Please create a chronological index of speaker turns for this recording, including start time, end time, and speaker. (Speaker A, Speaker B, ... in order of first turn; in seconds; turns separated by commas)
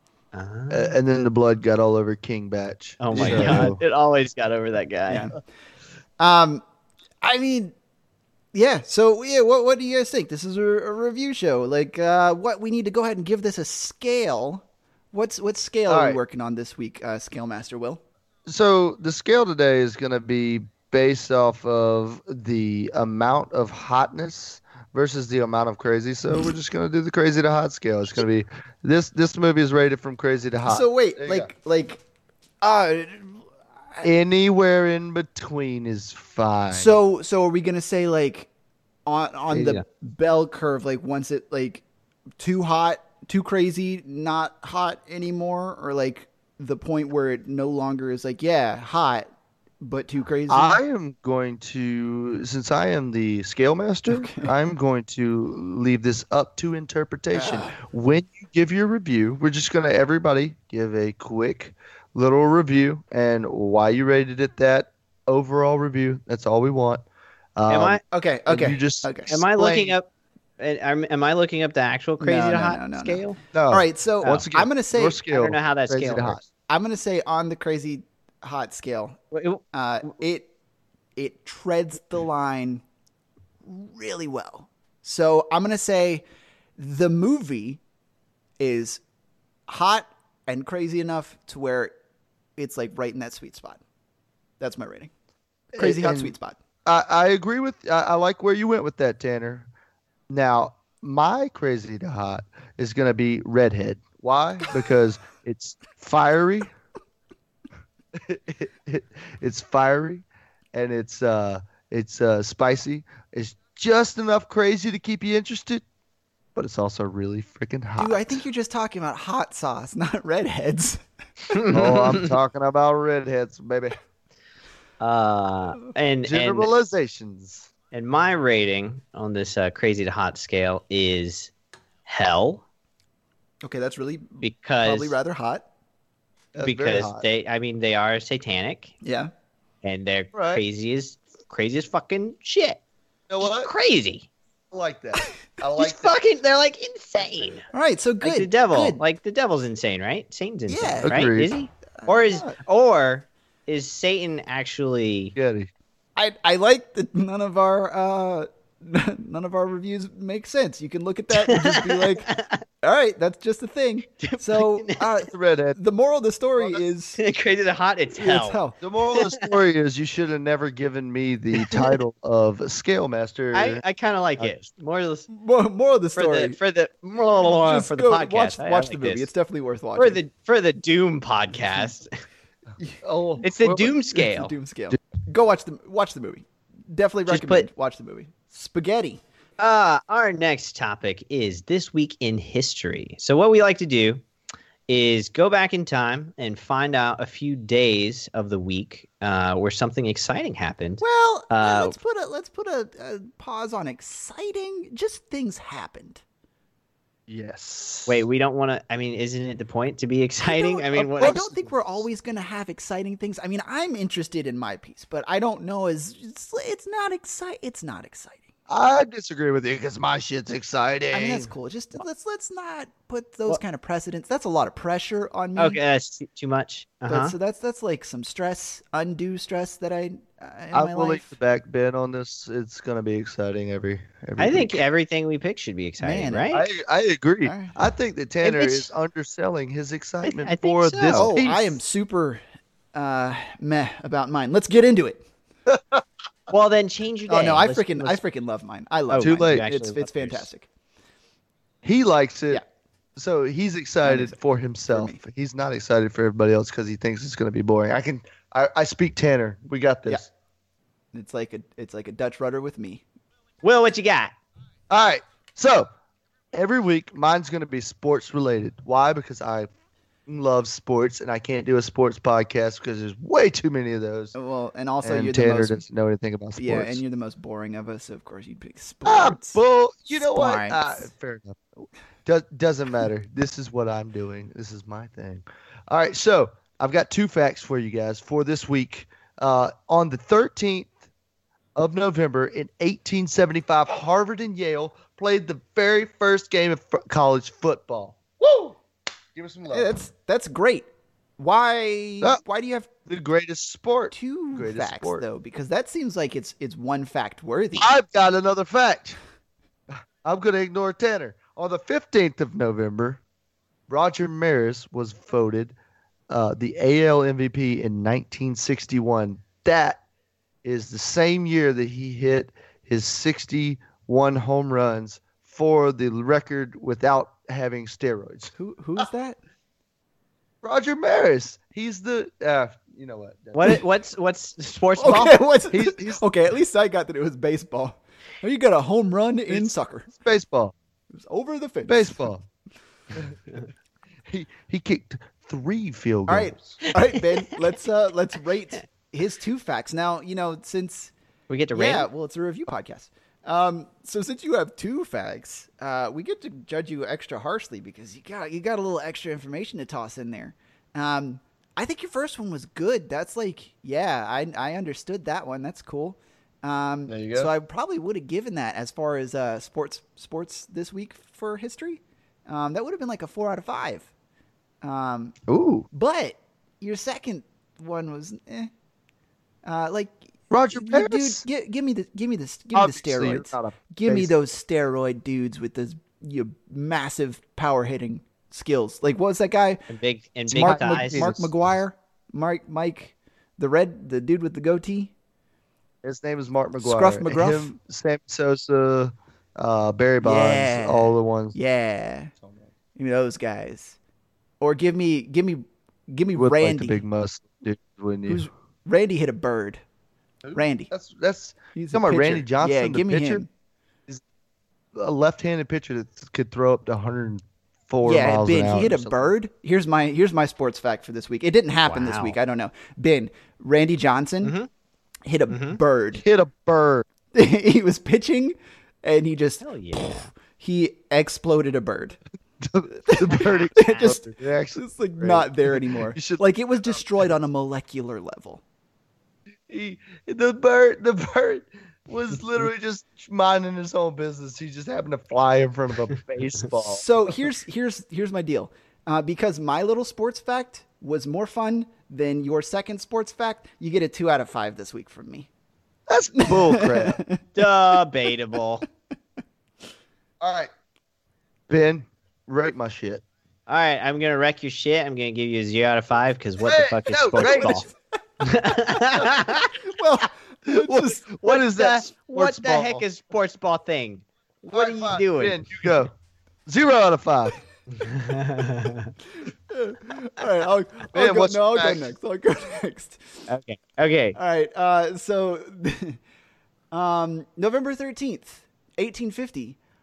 Speaker A: 0.3-0.9, Speaker B: 0.7-3.8, Speaker A: 3.0-5.3, Speaker C: 3.1-3.8, Speaker C: 5.1-5.4, Speaker C: 6.2-6.6, Speaker C: 7.2-7.7, Speaker C: 8.5-18.0, Speaker B: 15.9-16.2, Speaker B: 18.4-31.5, Speaker C: 30.6-32.0, Speaker C: 32.6-34.1, Speaker B: 34.0-37.0, Speaker C: 36.7-38.5, Speaker C: 39.0-41.8, Speaker A: 39.5-39.8, Speaker C: 42.4-49.3, Speaker C: 49.8-50.8, Speaker B: 50.5-67.0, Speaker C: 54.1-54.5, Speaker C: 57.3-57.8, Speaker B: 67.6-70.0, Speaker A: 67.7-68.0, Speaker C: 68.1-69.3, Speaker A: 69.3-70.1, Speaker A: 70.6-73.4, Speaker C: 72.2-75.2, Speaker B: 73.5-76.5, Speaker A: 75.3-76.4, Speaker C: 76.7-79.2, Speaker A: 79.3-79.6, Speaker C: 79.7-80.5, Speaker C: 81.2-82.8, Speaker C: 83.6-86.2, Speaker C: 86.8-87.8, Speaker C: 88.6-89.0, Speaker C: 89.7-91.9, Speaker C: 92.6-93.8, Speaker C: 94.6-95.1, Speaker B: 95.7-96.3, Speaker C: 95.8-96.5, Speaker B: 96.8-99.7, Speaker B: 100.3-106.7, Speaker B: 108.2-115.8, Speaker B: 116.5-118.3, Speaker C: 118.0-121.0, Speaker A: 121.5-122.3, Speaker B: 121.7-123.9, Speaker A: 125.0-126.7, Speaker B: 126.2-127.7, Speaker A: 127.9-131.5, Speaker A: 132.1-132.6, Speaker C: 133.6-135.7, Speaker A: 134.4-135.2, Speaker B: 136.5-137.2, Speaker A: 136.6-138.9, Speaker C: 139.0-139.3, Speaker A: 139.8-142.8, Speaker B: 140.3-140.6, Speaker B: 143.3-143.7, Speaker A: 143.4-144.3, Speaker B: 144.7-146.1, Speaker A: 145.7-147.6, Speaker C: 147.7-149.0, Speaker A: 148.2-155.3, Speaker C: 150.7-151.3, Speaker B: 151.0-151.5, Speaker C: 152.0-152.6, Speaker B: 155.3-155.7, Speaker C: 156.2-162.3, Speaker A: 161.3-162.6, Speaker C: 162.8-167.2, Speaker A: 164.2-165.1, Speaker B: 165.0-165.8, Speaker B: 166.6-166.8, Speaker A: 167.2-169.5, Speaker C: 168.1-168.8, Speaker B: 168.8-173.8, Speaker A: 171.6-171.9, Speaker A: 173.5-175.3, Speaker C: 175.3-176.6, Speaker A: 176.2-179.3, Speaker C: 177.6-180.2, Speaker A: 180.0-182.1, Speaker B: 183.0-183.9, Speaker A: 183.4-184.5, Speaker C: 184.1-189.2, Speaker A: 187.3-187.7, Speaker A: 189.6-194.2, Speaker A: 194.9-201.9, Speaker C: 201.0-206.2, Speaker B: 207.3-208.2, Speaker A: 208.1-211.4, Speaker C: 210.4-218.5, Speaker B: 211.0-211.7, Speaker B: 218.7-221.5, Speaker C: 221.1-225.8, Speaker A: 225.6-227.3, Speaker C: 227.1-231.3, Speaker B: 230.7-234.8, Speaker A: 234.4-236.6, Speaker C: 236.0-236.5, Speaker B: 236.5-241.8, Speaker C: 237.4-237.8, Speaker A: 238.4-238.9, Speaker A: 240.2-241.3, Speaker C: 241.1-242.4, Speaker C: 242.9-245.2, Speaker B: 245.7-246.0, Speaker A: 246.5-248.2, Speaker C: 247.3-250.7, Speaker A: 249.1-250.5, Speaker B: 249.2-249.6, Speaker B: 251.8-252.6, Speaker B: 253.2-260.3, Speaker C: 254.0-254.4, Speaker C: 254.9-255.2, Speaker C: 261.1-263.0, Speaker A: 263.6-264.3, Speaker B: 264.9-265.9, Speaker B: 266.5-269.7, Speaker B: 270.3-274.3, Speaker C: 274.3-275.8, Speaker B: 275.0-277.0, Speaker C: 276.6-279.6, Speaker B: 279.0-281.6, Speaker C: 280.2-281.1, Speaker B: 282.2-290.9, Speaker B: 291.8-298.8, Speaker B: 299.3-299.9, Speaker C: 299.7-300.9, Speaker C: 301.4-302.9, Speaker B: 303.1-305.2, Speaker C: 304.1-307.9, Speaker B: 307.8-309.2, Speaker B: 310.2-313.2, Speaker B: 313.9-315.8, Speaker B: 316.3-320.0, Speaker B: 320.6-328.5, Speaker C: 328.5-329.4, Speaker B: 330.6-333.7, Speaker A: 333.5-335.4, Speaker C: 335.0-340.1, Speaker B: 335.7-336.2, Speaker B: 339.5-340.7, Speaker C: 341.1-342.3, Speaker B: 341.9-342.4, Speaker B: 344.2-346.8, Speaker C: 346.3-351.1, Speaker A: 351.5-352.1, Speaker C: 351.7-374.1, Speaker B: 367.1-367.5, Speaker C: 374.8-375.4, Speaker B: 375.5-375.9, Speaker C: 375.9-378.7, Speaker C: 379.6-380.2, Speaker B: 380.5-381.4, Speaker C: 380.7-389.8, Speaker B: 382.7-384.3, Speaker A: 389.9-391.2, Speaker C: 390.5-395.1, Speaker B: 390.5-391.5, Speaker B: 396.0-401.5, Speaker C: 396.8-397.8, Speaker C: 400.2-402.3, Speaker B: 402.4-402.7, Speaker C: 402.9-404.0, Speaker C: 404.6-407.0, Speaker B: 406.4-408.4, Speaker C: 408.3-409.8, Speaker B: 410.4-413.4, Speaker C: 410.5-410.9, Speaker C: 411.7-413.5, Speaker B: 414.9-419.3, Speaker C: 418.0-424.5, Speaker A: 421.9-422.4, Speaker A: 424.4-424.7, Speaker C: 425.2-426.2, Speaker A: 425.5-425.8, Speaker B: 426.2-427.0, Speaker C: 427.3-432.2, Speaker A: 429.6-430.3, Speaker B: 432.6-437.0, Speaker C: 432.9-434.2, Speaker C: 434.8-438.6, Speaker B: 439.7-447.0, Speaker C: 446.8-455.5, Speaker B: 456.1-457.2, Speaker C: 456.4-457.4, Speaker A: 457.6-458.9, Speaker B: 460.4-460.7, Speaker B: 461.7-463.2, Speaker A: 463.7-467.9, Speaker B: 466.6-467.9, Speaker C: 467.4-467.8, Speaker A: 468.4-469.8, Speaker C: 469.8-471.2, Speaker B: 470.7-473.0, Speaker A: 471.4-475.8, Speaker B: 474.7-476.1, Speaker B: 476.6-477.6, Speaker A: 478.0-479.1, Speaker C: 479.4-483.2, Speaker B: 481.1-482.1, Speaker A: 483.5-484.4, Speaker C: 484.3-486.2, Speaker C: 486.9-489.8